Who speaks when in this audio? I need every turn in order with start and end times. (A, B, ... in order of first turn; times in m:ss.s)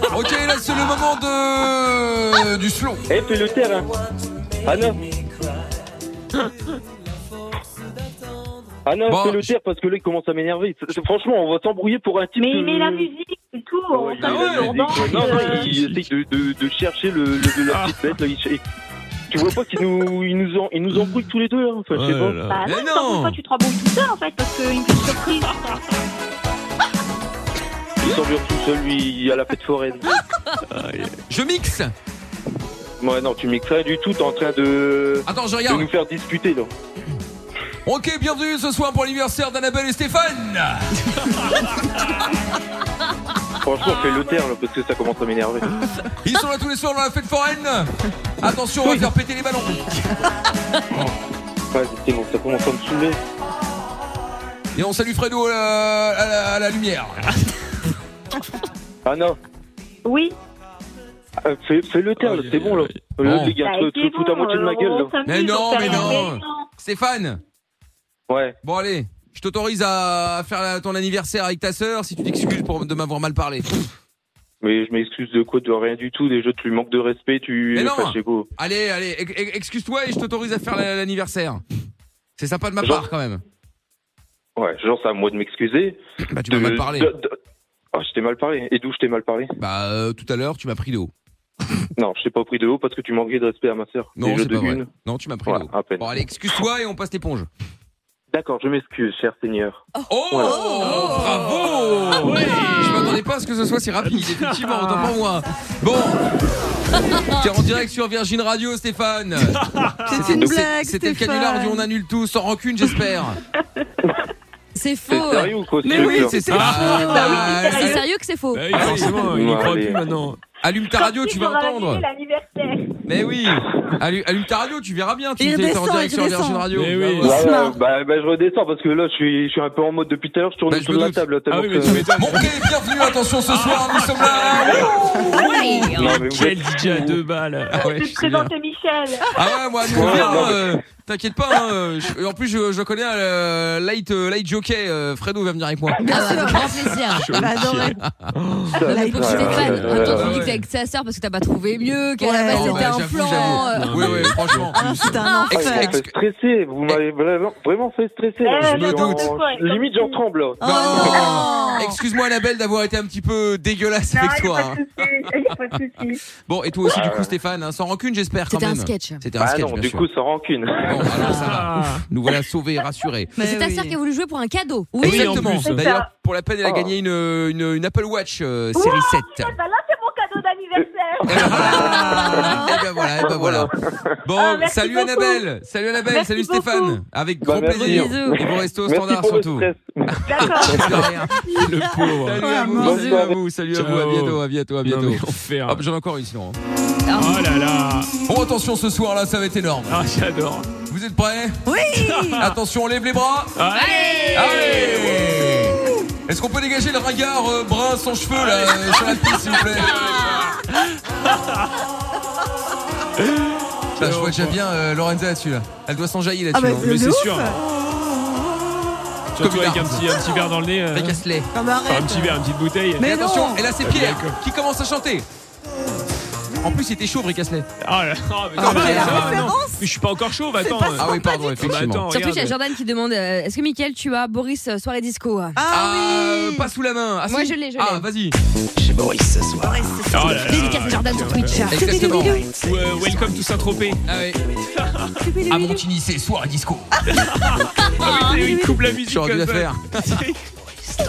0:00.1-0:03.1 A
0:03.1-0:03.9 B
0:04.6-0:05.0 B
0:08.8-0:13.1 B
0:09.1-0:09.5 A
0:12.4-0:15.7 C
0:13.9-0:18.6 B
0:14.2-0:15.9 A
0:15.7-0:16.0 D
0:17.6-0:18.1 D
0:19.3-0:22.4 B
0:21.9-0:22.6 D
0:22.5-0:25.6 C
0:22.7-0:23.4 A
0:28.0-0:30.0 B
0:30.7-0:31.2 D
0:31.3-0:31.9 A
0:33.0-0:36.7 B
0:35.3-0:35.9 A
0:37.9-0:41.0 A
0:43.6-0:45.7 B
0:46.2-0:50.0 A
0:51.7-0:53.2 B
0:54.7-0:57.2 A
0:59.0-0:59.4 B
1:00.0-1:00.4 C
1:01.4-1:05.1 B
1:02.3-1:02.7 D
1:03.2-1:03.6 A
1:03.6-1:06.7 C
1:05.2-1:07.4 A
1:08.3-1:08.6 B
1:08.6-1:13.8 A
1:14.6-1:18.5 B
1:17.8-1:21.6 A
1:22.4-1:23.4 A
1:22.8-1:23.1 B
1:24.6-1:27.3 B
1:26.3-1:27.1 A
1:27.9-1:29.5 B
1:29.6-1:31.1 A
1:32.0-1:34.9 B
1:34.2-1:37.5 A
1:35.5-1:36.1 B
1:38.3-1:40.7 B
1:40.1-1:46.3 A
1:40.4-1:41.3 E
1:40.8-1:43.1 D
1:44.0-1:45.2 D
1:47.3-1:49.6 A
1:49.5-1:50.3 D
1:50.1-1:51.9 E
1:50.2-1:53.4 A
1:54.7-1:55.5 F
1:55.1-1:56.4 B
1:55.3-1:58.1 A
1:55.8-1:57.9 E
1:56.5-1:57.3 D
1:57.0-1:58.0 C
1:57.9-1:58.9 F
1:58.5-2:00.4 D
1:58.7-1:59.2 A
1:58.8-2:00.0 B
2:00.6-2:02.0 A
2:00.9-2:02.9 C
2:03.1-2:07.4 A
2:05.4-2:06.7 E
2:06.7-2:07.5 D
2:07.2-2:12.2 B
2:07.3-2:07.8 E
2:10.7-2:11.3 A
2:11.5-2:12.7 D
2:12.2-2:15.6 A
2:13.4-2:18.3 D
2:15.0-2:17.2 B
2:15.4-2:16.2 F
2:17.8-2:19.4 C
2:17.8-2:18.5 A
2:19.3-2:26.2 A
2:19.9-2:20.8 B
2:20.2-2:20.5 D
2:26.0-2:28.0 E
2:26.1-2:27.3 F
2:26.9-2:30.4 D
2:27.3-2:28.3 A
2:28.8-2:30.4 B
2:28.8-2:30.4 E
2:29.0-2:35.5 F
2:29.4-2:30.6 A
2:32.2-2:36.0 E
2:32.4-2:36.1 A
2:33.7-2:35.3 D
2:35.5-2:41.3 B
2:38.4-2:40.2 C
2:38.6-2:39.3 A
2:40.6-2:42.0 E
2:40.6-2:45.3 A
2:41.2-2:41.8 C
2:44.1-2:46.2 C
2:46.4-2:50.1 A
2:46.8-2:47.4 B
2:48.5-2:49.2 F
2:49.4-2:51.4 B
2:50.8-2:53.4 A
2:51.5-2:52.1 D
2:53.4-2:54.0 E
2:53.4-2:55.5 F
2:55.0-2:59.5 A
2:55.0-2:55.8 D
2:55.3-2:56.1 C
2:56.6-2:56.9 B
2:58.8-3:02.8 C
3:01.2-3:02.2 B
3:01.3-3:03.7 A
3:02.4-3:02.8 E
3:03.3-3:04.1 B
3:04.2-3:09.7 A
3:04.3-3:05.4 C
3:06.1-3:07.0 C
3:07.4-3:11.1 B
3:07.8-3:08.4 F
3:10.3-3:11.6 C
3:10.3-3:11.4 A
3:10.7-3:13.0 D
3:11.7-3:13.2 E
3:12.1-3:16.6 A
3:12.8-3:13.4 B
3:13.7-3:15.8 D
3:17.1-3:17.4 F
3:17.1-3:18.1 D
3:18.3-3:20.0 A
3:19.9-3:20.7 D
3:20.9-3:21.6 A
3:21.7-3:22.5 E
3:21.9-3:22.6 D
3:22.4-3:23.6 A
3:23.6-3:25.5 D
3:23.7-3:25.0 F
3:24.3-3:30.0 A
3:25.7-3:26.0 E
3:28.3-3:30.6 D
3:29.6-3:30.5 F
3:34.0-3:34.6 D
3:34.0-3:36.9 A
3:36.5-3:37.6 E
3:36.8-3:37.6 D
3:39.3-3:41.2 D
3:39.4-3:40.2 A
3:40.9-3:41.5 A
3:41.5-3:42.4 E
3:41.9-3:43.2 D
3:43.0-3:43.7 E
3:43.1-3:45.3 A
3:43.8-3:44.4 D
3:46.5-3:47.7 A
3:47.8-3:52.7 D
3:48.6-3:49.4 A
3:48.6-3:49.9 E
3:48.7-3:49.1 F
3:50.5-3:51.7 E
3:50.9-3:52.1 A
3:52.1-3:55.6 F
3:55.5-3:56.7 E
3:55.7-4:00.0 A
3:57.3-3:58.1 F
3:59.6-4:02.8 E
4:00.1-4:01.7 D
4:00.4-4:02.4 F
4:01.7-4:02.5 A
4:02.6-4:04.0 D
4:03.0-4:03.4 F
4:04.1-4:04.4 A
4:04.8-4:05.3 D
4:05.2-4:05.6 E
4:05.5-4:07.2 A
4:07.1-4:10.4 D
4:07.8-4:08.6 F
4:08.3-4:08.8 E
4:08.9-4:10.2 A